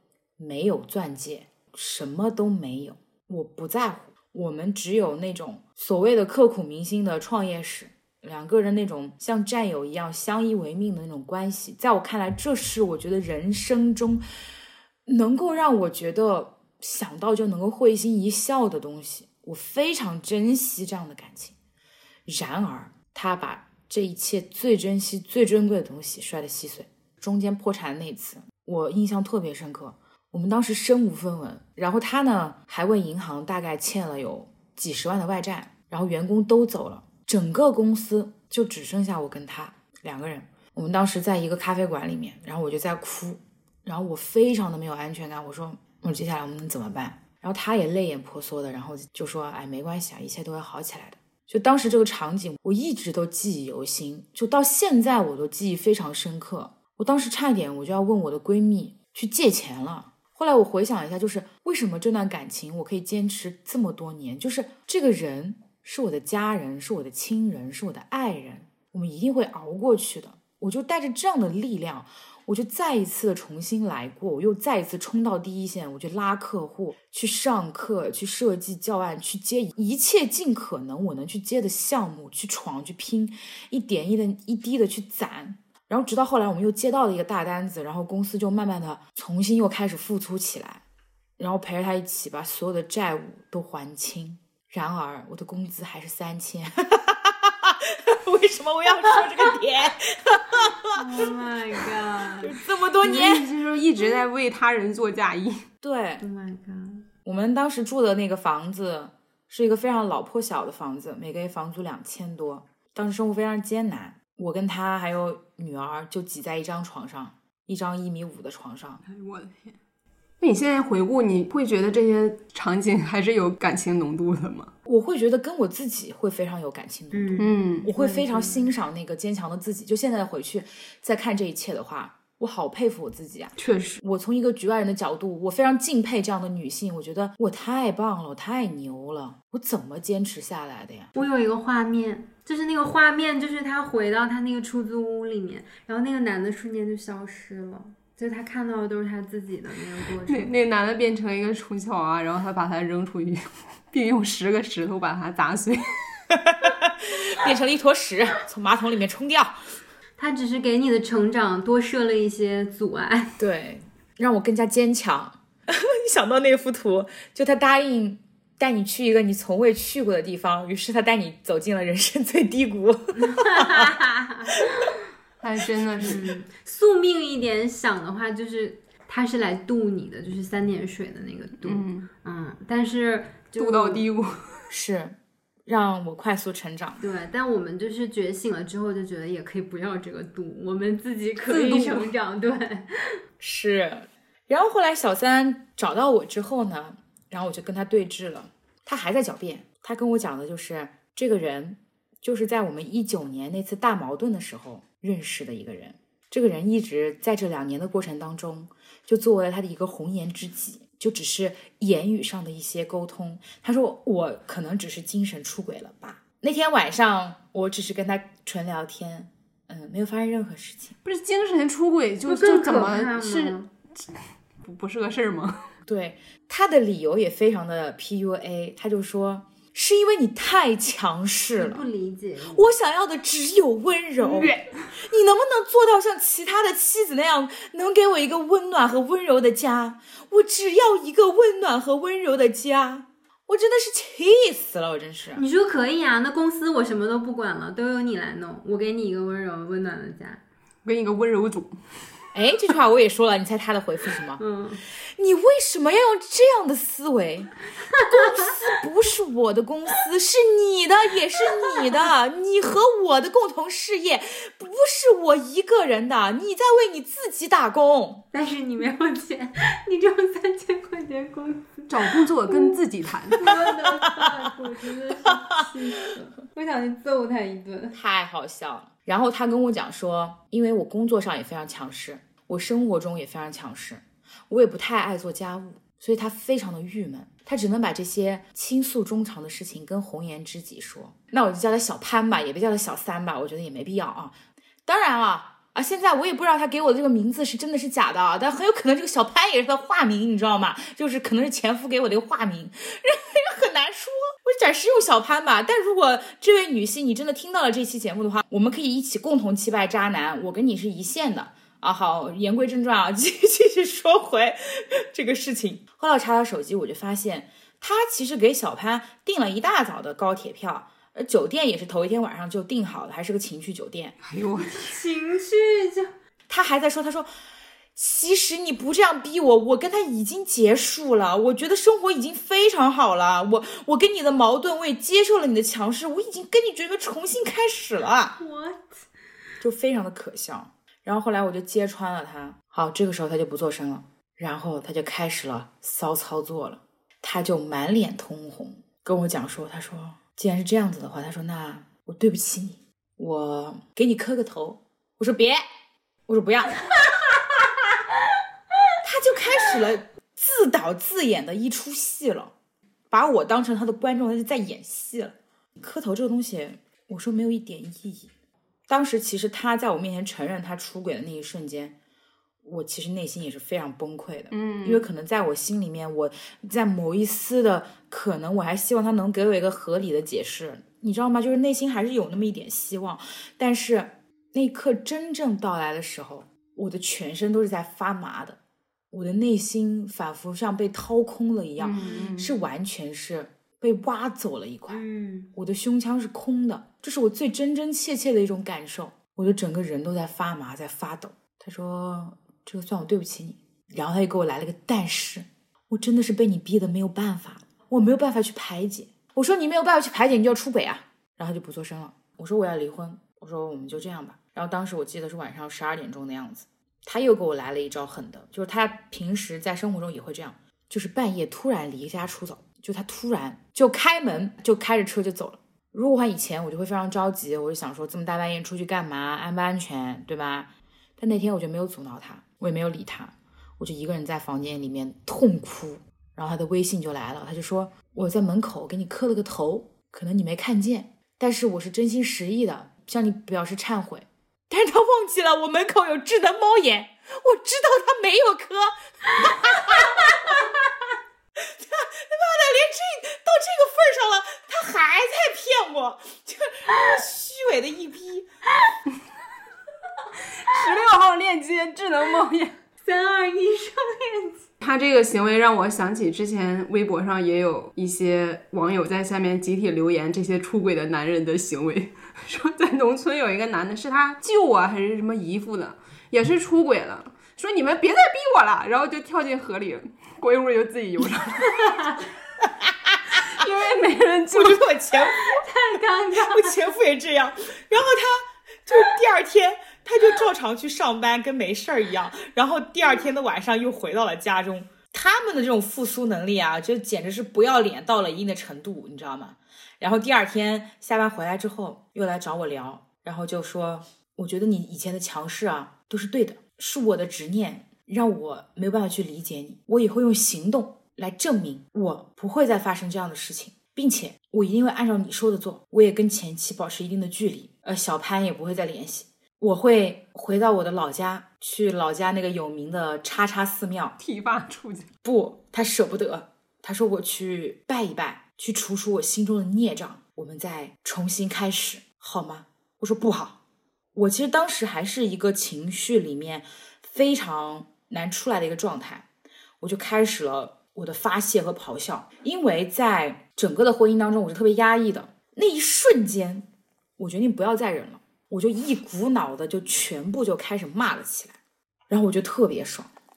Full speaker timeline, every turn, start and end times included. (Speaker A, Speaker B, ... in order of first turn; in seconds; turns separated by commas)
Speaker A: 0.4-14.2, Speaker A: 15.1-21.6, Speaker A: 22.3-90.8, Speaker A: 91.4-101.3, Speaker B: 100.9-102.5, Speaker A: 102.4-103.5, Speaker C: 103.0-105.7, Speaker A: 105.8-106.2, Speaker B: 106.2-107.0, Speaker A: 107.2-119.0, Speaker B: 119.2-119.6, Speaker C: 120.4-124.7, Speaker A: 124.9-141.1, Speaker B: 127.1-128.7, Speaker C: 127.4-127.9, Speaker C: 133.6-134.0, Speaker B: 141.2-150.5, Speaker C: 150.2-156.2, Speaker A: 156.3-159.6, Speaker B: 160.2-163.4, Speaker A: 163.4-173.9, Speaker B: 173.2-174.9, Speaker C: 175.4-176.4, Speaker B: 176.0-184.1, Speaker C: 181.6-182.1, Speaker C: 183.6-184.6, Speaker A: 184.7-187.0, Speaker B: 187.0-193.2, Speaker C: 191.5-192.1, Speaker A: 193.4-220.9, Speaker C: 221.1-225.7, Speaker B: 222.3-223.7, Speaker A: 225.9-231.9, Speaker B: 231.6-232.7, Speaker A: 232.5-245.4, Speaker C: 234.2-234.9, Speaker B: 245.3-250.4, Speaker C: 250.8-251.8, Speaker A: 252.3-268.2, Speaker B: 254.4-254.8, Speaker B: 268.3-272.8, Speaker C: 271.9-273.4, Speaker B: 273.4-278.0, Speaker A: 277.9-324.1, Speaker C: 324.2-325.0, Speaker B: 324.7-326.1, Speaker A: 326.5-327.3, Speaker A: 328.0-338.4, Speaker B: 338.4-339.1, Speaker A: 339.6-355.6, Speaker A: 356.3-356.9, Speaker A: 359.0-362.5, Speaker A: 363.1-368.3, Speaker A: 368.9-371.9, Speaker A: 372.6-388.6, Speaker C: 374.5-375.1, Speaker A: 389.1-395.0, Speaker C: 391.8-392.6, Speaker B: 392.0-392.3, Speaker B: 394.9-395.5, Speaker A: 395.6-450.8, Speaker A: 451.6-458.5, Speaker C: 460.5-462.8, Speaker B: 463.0-464.6, Speaker C: 464.8-481.9, Speaker B: 481.7-482.2, Speaker A: 482.6-483.2, Speaker C: 483.4-484.8, Speaker A: 484.5-485.6, Speaker B: 485.3-486.9, Speaker A: 486.3-524.2, Speaker C: 524.2-525.1, Speaker A: 525.2-533.6, Speaker A: 534.1-539.3, Speaker A: 539.8-546.7, Speaker A: 547.2-551.6, Speaker A: 552.1-553.1